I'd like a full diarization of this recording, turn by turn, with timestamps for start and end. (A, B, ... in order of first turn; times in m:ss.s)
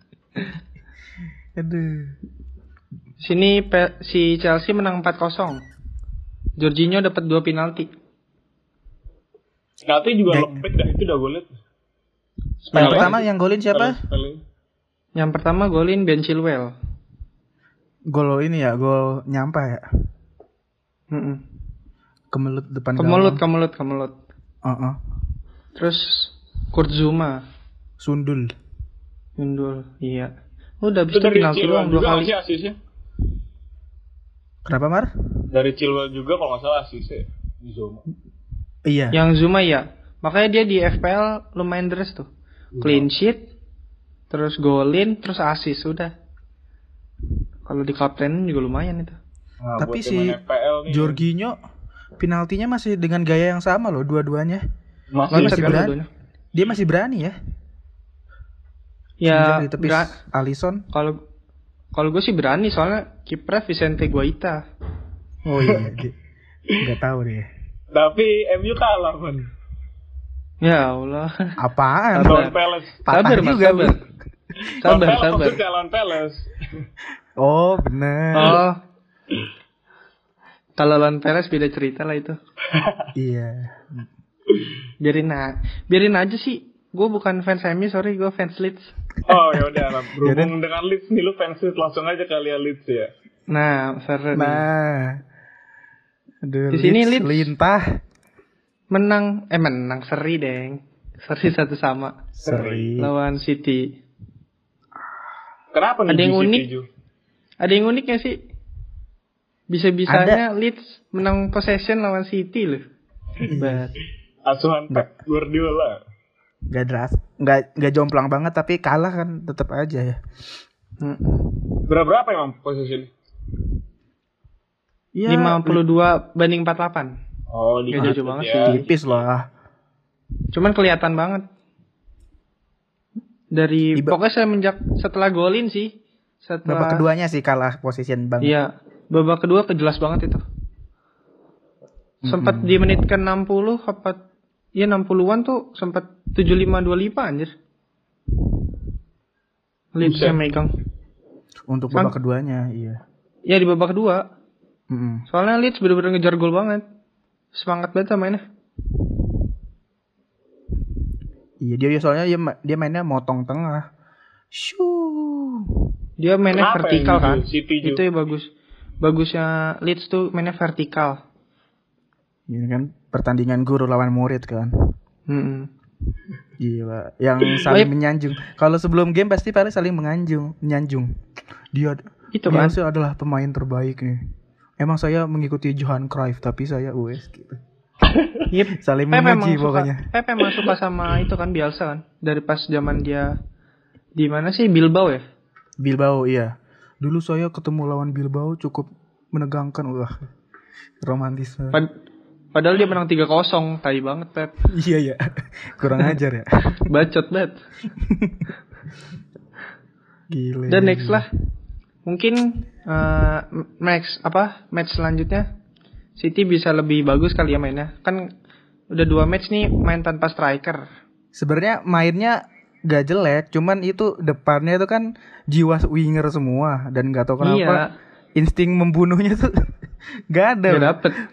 0:01.6-0:02.2 A
0:03.2-0:05.6 B
0:06.6-0:07.9 B
0:09.8-0:11.5 C
0:10.3-0:10.7 A
0:12.7-0:13.1 B
0:12.7-0:14.0 A
0:12.7-0:14.4 C
0:15.2-0:16.7 B
0:18.1-0:19.8 A
0:21.1-0:21.4 B
0:22.3-0:23.4 A
0:23.0-0:24.1 B
0:24.6-0:25.0 A
0:25.8-0:27.4 B
0:28.0-0:28.5 A
0:29.4-0:30.3 B
0:30.8-0:32.3 B
0:31.1-0:32.8 C
0:34.6-0:35.1 A
0:35.5-0:38.0 C
0:38.8-0:39.2 A
0:39.1-0:42.3 B
0:42.7-0:43.0 C
0:42.8-0:43.4 B
0:44.3-0:46.1 B
0:47.7-0:49.2 B
0:49.6-0:51.2 C
0:49.8-0:50.4 A
0:50.9-0:51.6 A
0:52.2-0:54.6 A
0:55.1-0:55.8 C
0:55.3-0:56.1 B
0:55.3-0:55.9 A
0:56.5-0:57.4 A
0:59.2-1:00.2 B
0:59.3-1:00.8 A
1:00.9-1:01.2 B
1:02.0-1:04.6 B
1:05.4-1:06.2 A
1:05.6-1:05.9 C
1:06.8-1:07.5 A
1:07.9-1:09.5 C
1:10.6-1:11.6 B
1:11.6-1:12.5 A
1:12.1-1:12.5 B
1:12.2-1:13.0 C
1:13.0-1:13.9 A
1:13.1-1:14.0 B
1:14.6-1:16.9 C
1:14.8-1:15.6 B
1:17.4-1:18.6 A
1:18.3-1:18.8 B
1:20.8-1:22.4 B
1:22.7-1:23.1 C
1:23.1-1:24.1 A
1:25.0-1:28.9 B
1:29.2-1:33.1 C
1:30.2-1:30.5 A
1:33.5-1:34.6 B
1:34.3-1:35.2 A
1:36.4-1:38.0 A
1:36.7-1:37.5 B
1:38.9-1:42.2 B
1:42.4-1:43.1 A
1:42.4-1:42.9 C
1:43.0-1:44.0 B
1:45.7-1:46.8 C
1:46.1-1:46.7 B
1:47.6-1:48.4 B
1:49.7-1:52.8 B
1:50.1-1:50.4 A
1:53.4-1:53.9 A
1:53.5-1:53.9 B
1:54.4-1:56.0 C
1:56.7-2:00.2 A
2:01.0-2:01.5 B
2:01.9-2:03.1 C
2:05.1-2:05.8 A
2:05.3-2:07.1 B
2:07.5-2:08.8 C
2:07.9-2:08.8 B
2:08.0-2:09.5 A
2:10.5-2:11.4 B
2:13.5-2:15.9 B
2:16.4-2:17.0 B
2:16.6-2:18.5 A
2:18.4-2:20.4 B
2:22.2-2:22.8 A
2:22.2-2:24.2 B
2:24.7-2:27.5 B
2:29.9-2:30.7 B
2:30.0-2:30.4 C
2:31.7-2:33.0 A
2:33.5-2:34.2 B
2:34.9-2:35.2 A
2:35.3-2:36.8 B
2:37.5-2:38.4 B
2:41.6-2:43.9 A
2:44.5-2:45.9 A
2:46.2-2:48.5 B
2:46.5-2:48.0 C
2:49.0-2:51.2 B
2:52.5-2:54.7 A
2:55.3-2:55.7 B
2:56.6-3:01.1 A
3:01.7-3:04.2 A
3:02.3-3:02.7 B
3:04.8-3:07.6 A
3:08.1-3:08.4 C
3:08.5-3:13.3 B
3:08.8-3:10.1 A
3:14.2-3:15.2 B
3:15.8-3:20.2 A
3:21.0-3:21.8 A
3:22.5-3:24.5 B
3:24.7-3:26.8 A
3:26.8-3:27.5 B
3:28.0-3:28.4 A
3:30.3-3:31.2 A
3:30.7-3:31.2 B
3:32.0-3:35.5 B
3:36.2-3:38.3 B
3:38.9-3:40.8 B
3:41.3-3:47.8 A
3:47.4-3:47.9 B
3:48.4-3:49.5 A
3:50.3-3:51.0 A
3:50.7-3:51.2 B